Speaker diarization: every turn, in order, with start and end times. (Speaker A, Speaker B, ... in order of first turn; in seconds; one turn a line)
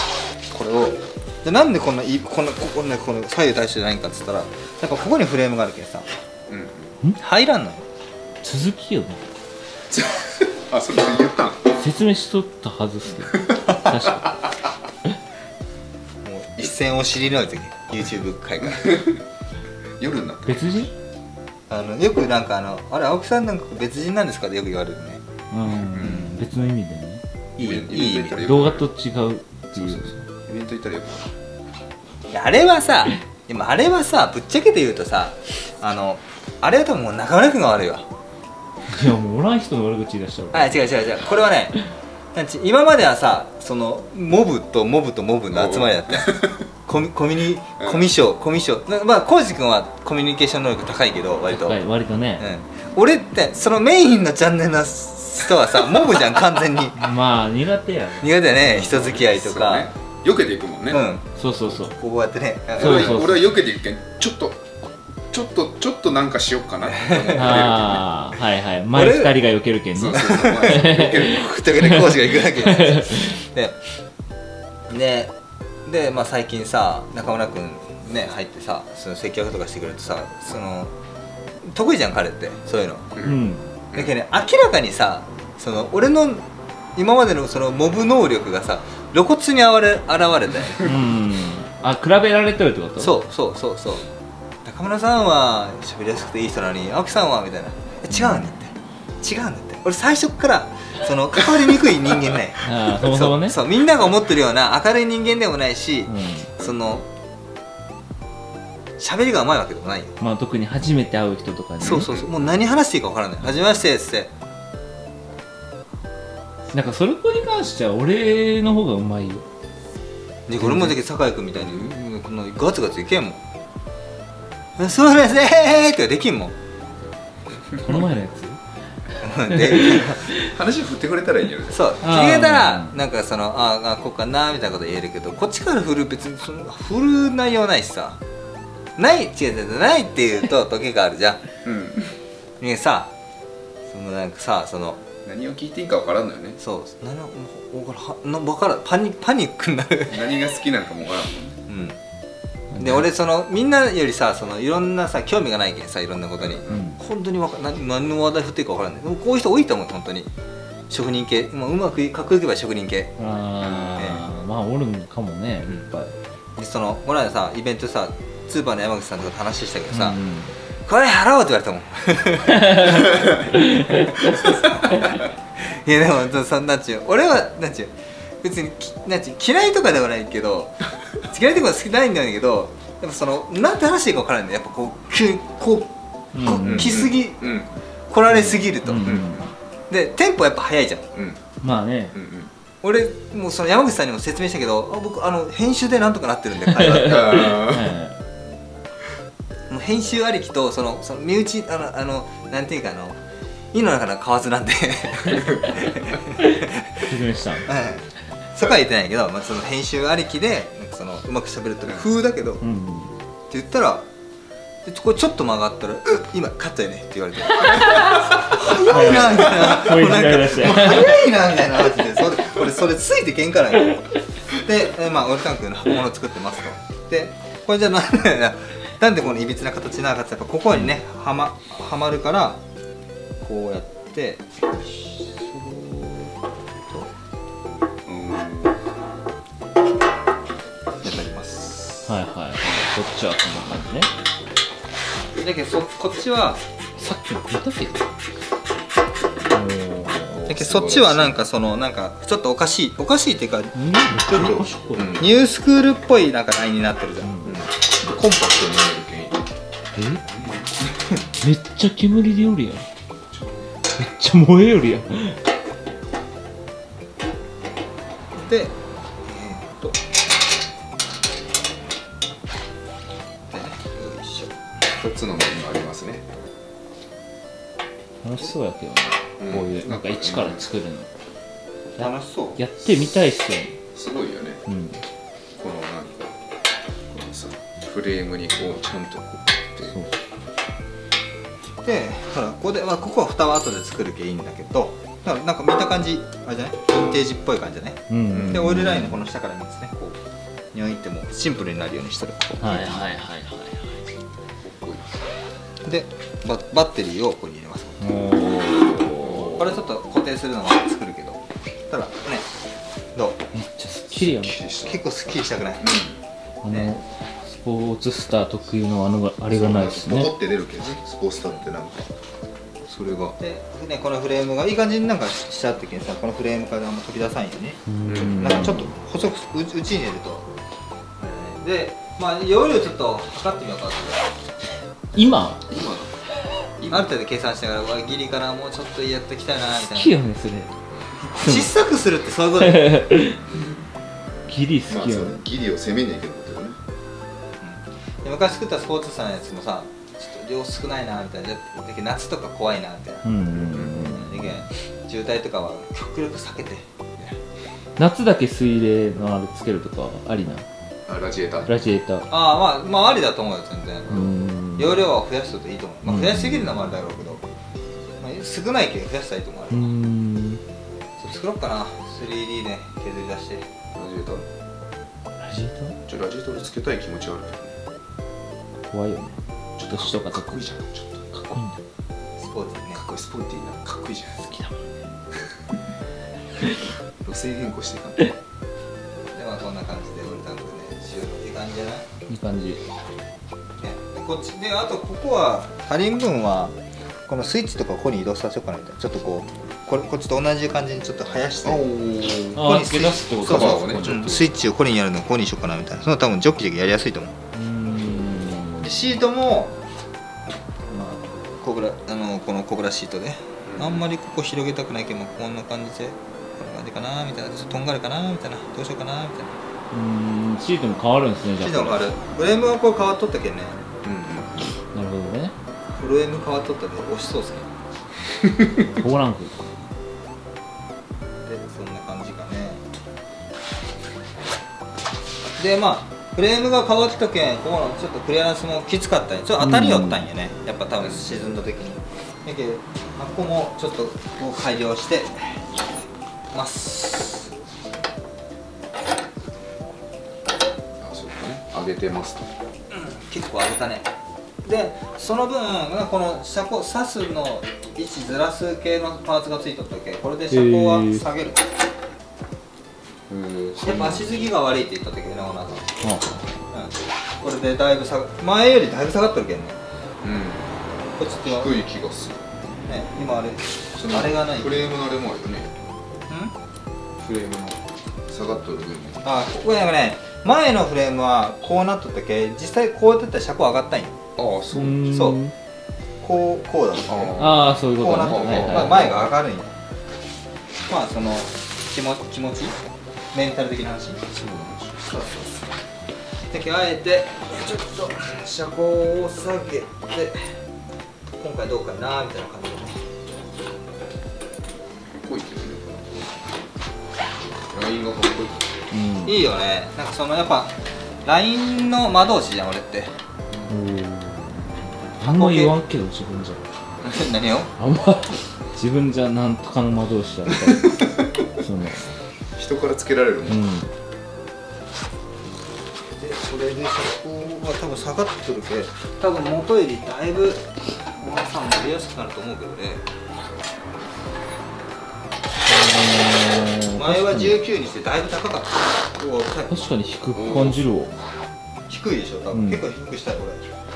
Speaker A: 0.5-6.1
Speaker B: 6.5-7.0
Speaker A: 7.2-7.8
Speaker C: 8.4-9.2
Speaker B: 9.9-11.7
Speaker C: 11.8-14.5
Speaker B: 13.3-14.3
Speaker A: 16.2-19.1
Speaker B: 18.8-19.1
Speaker B: 20.0-20.9
Speaker C: 20.4-20.9
Speaker A: 21.7-25.2
Speaker C: 25.5-27.2
Speaker B: 25.9-26.3
Speaker A: 26.0-26.3
Speaker A: 27.6-28.4
Speaker B: 27.6-28.9
Speaker C: 28.4-30.2
Speaker B: 29.7-31.3
Speaker A: 32.3-38.1
Speaker C: 38.9-40.9
Speaker A: 40.5-41.8
Speaker A: 42.3-51.8
Speaker B: 45.5-46.6
Speaker C: 51.5-52.4
Speaker A: 52.4-57.0
Speaker C: 56.9-59.1
Speaker A: 58.2-59.9
Speaker B: 58.8-61.1
Speaker A: 60.9-61.2
Speaker C: 61.4-61.9
Speaker A: 61.9-63.3
Speaker C: 62.8-63.3
Speaker B: 62.8-64.6
Speaker B: 65.3-68.0
Speaker A: 66.8-67.7
Speaker C: 67.3-73.3
Speaker A: 68.9-69.3
Speaker B: 69.9-72.7
Speaker A: 70.1-73.8
Speaker A: 74.9-75.3
Speaker A: 75.8-80.9
Speaker A: 81.6-83.1
Speaker C: 83.2-83.7
Speaker A: 83.9-86.4
Speaker A: 87.0-90.9
Speaker C: 90.8-93.2
Speaker A: 93.0-94.1
Speaker A: 94.6-107.0
Speaker C: 98.1-98.5
Speaker C: 102.6-103.6
Speaker C: 106.1-106.5
Speaker B: 106.6-106.9
Speaker A: 109.0-110.1
Speaker C: 110.2-112.1
Speaker B: 111.8-112.5
Speaker A: 111.8-114.3
Speaker C: 116.7-119.5
Speaker A: 120.5-123.4
Speaker C: 120.6-121.0
Speaker B: 121.5-122.0
Speaker A: 124.8-126.5
Speaker B: 127.7-128.0
Speaker C: 127.8-128.6
Speaker A: 129.2-130.3
Speaker C: 129.5-130.5
Speaker B: 129.9-131.9
Speaker A: 131.7-138.2
Speaker C: 132.0-132.9
Speaker A: 139.0-141.4
Speaker B: 141.6-142.2
Speaker A: 142.6-143.1
Speaker A: 143.9-145.0
Speaker B: 145.2-146.6
Speaker A: 146.6-150.4
Speaker B: 150.1-151.6
Speaker A: 151.7-152.0
Speaker C: 152.7-153.0
Speaker A: 152.8-160.3
Speaker B: 156.4-156.9
Speaker C: 156.7-157.0
Speaker A: 160.9-163.1
Speaker C: 163.2-166.1
Speaker A: 164.0-164.3
Speaker A: 166.6-170.2
Speaker C: 169.9-170.6
Speaker A: 170.8-187.6
Speaker C: 172.6-174.4
Speaker C: 186.3-187.1
Speaker B: 186.6-187.7
Speaker A: 188.1-189.2
Speaker C: 188.3-189.4
Speaker B: 189.0-189.4
Speaker A: 189.9-191.1
Speaker B: 191.1-191.4
Speaker C: 191.6-192.1
Speaker B: 192.1-192.5
Speaker A: 192.8-197.5
Speaker C: 196.7-198.2
Speaker B: 196.8-197.9
Speaker A: 199.7-203.2
Speaker A: 203.7-207.1
Speaker C: 206.9-207.7
Speaker A: 207.7-212.6
Speaker C: 212.6-213.1
Speaker A: 213.5-214.1
Speaker A: 214.8-232.6
Speaker C: 217.7-221.3
Speaker A: 233.4-236.3
Speaker B: 238.1-238.8
Speaker B: 241.0-242.0
Speaker C: 242.1-244.1
Speaker A: 245.4-246.6
Speaker C: 247.0-248.0
Speaker C: 249.5-250.4
Speaker B: 250.1-251.4
Speaker A: 250.5-257.3
Speaker C: 253.7-255.2
Speaker B: 254.4-255.3
Speaker C: 257.2-257.6
Speaker B: 257.4-259.5
Speaker C: 259.9-260.2
Speaker B: 260.2-260.7
Speaker C: 261.4-262.9
Speaker B: 263.3-263.7
Speaker C: 263.9-265.4
Speaker A: 268.3-270.0
Speaker A: 273.5-274.5
Speaker B: 274.9-276.3
Speaker C: 278.2-281.1
Speaker B: 279.4-280.6
Speaker C: 282.0-283.8
Speaker A: 282.0-282.6
Speaker B: 283.9-284.6
Speaker C: 284.7-285.0
Speaker B: 285.6-286.4
Speaker B: 287.1-290.0
Speaker C: 289.9-290.1
Speaker A: 291.8-300.2
Speaker C: 298.1-299.1
Speaker B: 298.3-298.9
Speaker A: 300.7-303.1
Speaker C: 302.6-304.0
Speaker B: 304.6-305.1
Speaker A: 305.9-308.0
Speaker C: 308.0-309.6
Speaker B: 309.2-309.6
Speaker A: 309.6-312.5
Speaker C: 313.5-314.6
Speaker B: 314.1-316.2
Speaker A: 314.8-316.0
Speaker C: 316.6-320.3
Speaker B: 319.5-322.1
Speaker B: 322.9-323.3
Speaker A: 323.4-327.8
Speaker C: 327.9-328.9
Speaker B: 328.1-328.9
Speaker A: 328.4-330.4
Speaker A: 331.2-334.3
Speaker C: 335.1-335.7
Speaker B: 335.7-336.1
Speaker B: 336.8-337.1
Speaker A: 336.9-340.1
Speaker C: 339.9-340.7
Speaker C: 341.3-341.7
Speaker A: 341.4-343.1
Speaker C: 342.6-343.4
Speaker C: 344.5-345.4
Speaker B: 344.9-346.8
Speaker A: 347.6-353.2
Speaker C: 353.2-354.6
Speaker B: 353.5-354.2
Speaker A: 354.1-357.4
Speaker C: 358.0-360.6
Speaker B: 361.1-361.7
Speaker C: 361.6-362.3
Speaker A: 362.3-367.4
Speaker C: 364.1-365.1
Speaker C: 366.1-366.7
Speaker A: 368.2-369.9
Speaker C: 369.7-370.6
Speaker A: 371.2-373.6
Speaker B: 373.9-374.4
Speaker C: 375.4-376.0
Speaker B: 376.1-377.8
Speaker C: 378.9-380.7
Speaker B: 379.8-381.2
Speaker C: 381.3-381.8
Speaker A: 382.4-383.0
Speaker B: 382.9-384.6
Speaker C: 384.5-384.8
Speaker B: 387.2-388.3
Speaker A: 389.3-392.1
Speaker C: 392.3-392.8
Speaker A: 393.8-396.8
Speaker A: 397.3-401.9
Speaker B: 401.6-402.6
Speaker C: 402.5-404.2
Speaker A: 402.5-407.4
Speaker B: 403.4-404.5
Speaker C: 407.5-408.9
Speaker A: 408.8-409.8
Speaker A: 410.9-419.6
Speaker B: 413.6-414.0
Speaker C: 419.9-422.0
Speaker A: 421.6-423.8
Speaker B: 424.0-424.7
Speaker C: 424.9-425.5
Speaker A: 425.9-427.7
Speaker B: 428.4-428.9
Speaker C: 428.9-429.8
Speaker A: 431.4-432.8
Speaker A: 435.6-445.6
Speaker C: 439.6-440.2
Speaker B: 441.0-441.3
Speaker A: 446.5-447.5
Speaker B: 451.0-452.5
Speaker A: 452.9-454.1
Speaker A: 454.6-461.6
Speaker C: 460.5-461.2
Speaker B: 463.3-464.3
Speaker A: 463.8-465.9
Speaker C: 466.0-466.5
Speaker A: 466.7-469.8
Speaker B: 470.2-470.7
Speaker A: 471.1-471.7
Speaker B: 471.4-472.5
Speaker A: 472.9-474.8
Speaker B: 473.9-475.7
Speaker A: 476.3-476.5
Speaker B: 477.2-479.3
Speaker A: 479.2-484.1
Speaker B: 484.4-485.4
Speaker C: 484.7-485.5
Speaker A: 485.1-485.4
Speaker A: 486.2-487.4
Speaker B: 487.1-489.3
Speaker C: 487.4-489.1
Speaker A: 487.9-489.8
Speaker A: 490.9-492.8
Speaker A: 493.3-494.2
Speaker B: 494.3-495.0
Speaker A: 495.0-495.7
Speaker A: 496.5-500.6
Speaker A: 501.4-503.1
Speaker B: 505.2-506.4
Speaker B: 507.6-508.7
Speaker C: 508.9-509.4
Speaker A: 509.2-513.1
Speaker C: 513.7-516.6
Speaker A: 515.2-515.7
Speaker A: 517.0-517.7
Speaker C: 517.8-522.1
Speaker B: 520.7-521.3
Speaker B: 522.5-523.6
Speaker C: 523.5-523.9
Speaker A: 526.2-533.0
Speaker C: 535.6-537.6
Speaker A: 537.0-539.7
Speaker C: 539.7-541.1
Speaker B: 540.3-540.9
Speaker A: 541.9-543.6
Speaker C: 542.5-542.9